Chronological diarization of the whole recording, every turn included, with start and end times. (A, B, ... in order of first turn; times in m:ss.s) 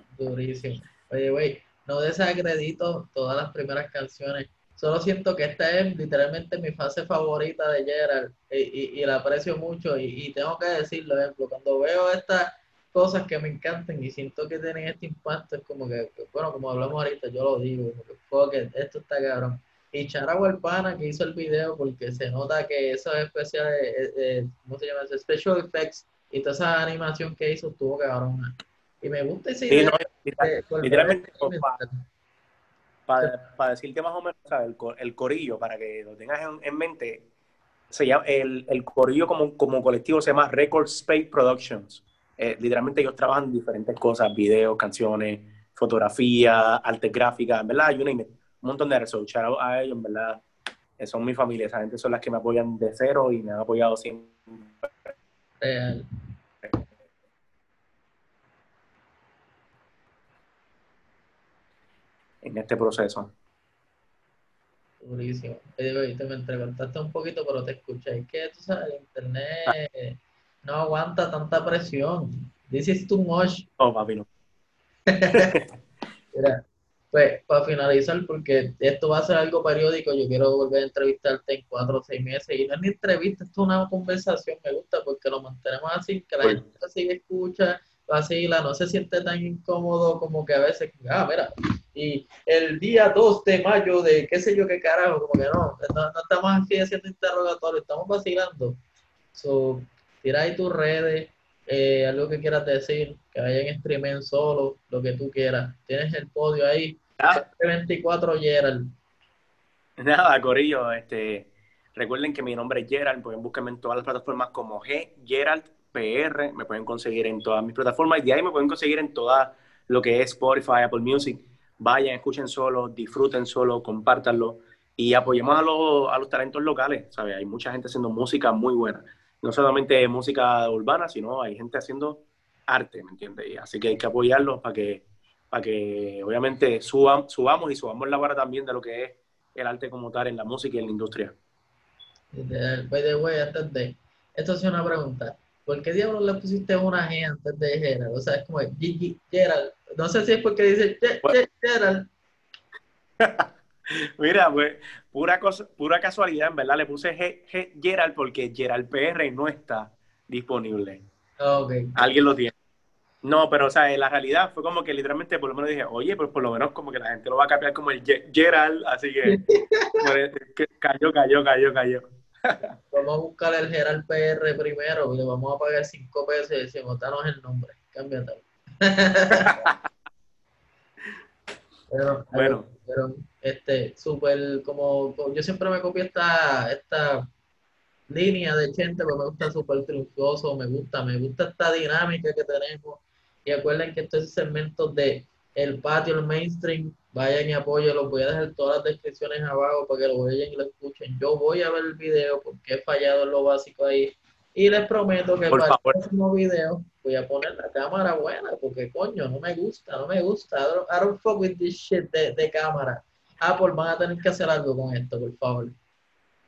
0:00.2-0:32.0 A
0:29.7-0:31.8 B
0:33.1-0:37.3 B
0:37.9-0:50.4 B
0:51.0-0:55.1 B
0:55.6-0:56.0 A
1:02.4-1:03.3 B
1:05.0-1:13.7 A
1:13.8-1:14.3 B
1:15.1-1:15.6 A
1:15.3-1:15.7 B
1:17.1-1:38.8 A
1:39.3-1:48.9 A
1:50.0-2:21.4 B
2:22.3-2:32.1 A
2:33.2-2:41.0 B
2:41.4-2:42.0 A
2:42.0-2:42.5 B
2:43.2-2:49.4 B
2:49.3-2:50.0 A
2:50.0-2:52.7 B
2:52.9-2:59.6 A
2:59.3-2:59.8 B
3:01.9-3:07.2 A
3:02.3-3:02.7 B
3:08.1-3:35.8 A
3:25.5-3:26.0 B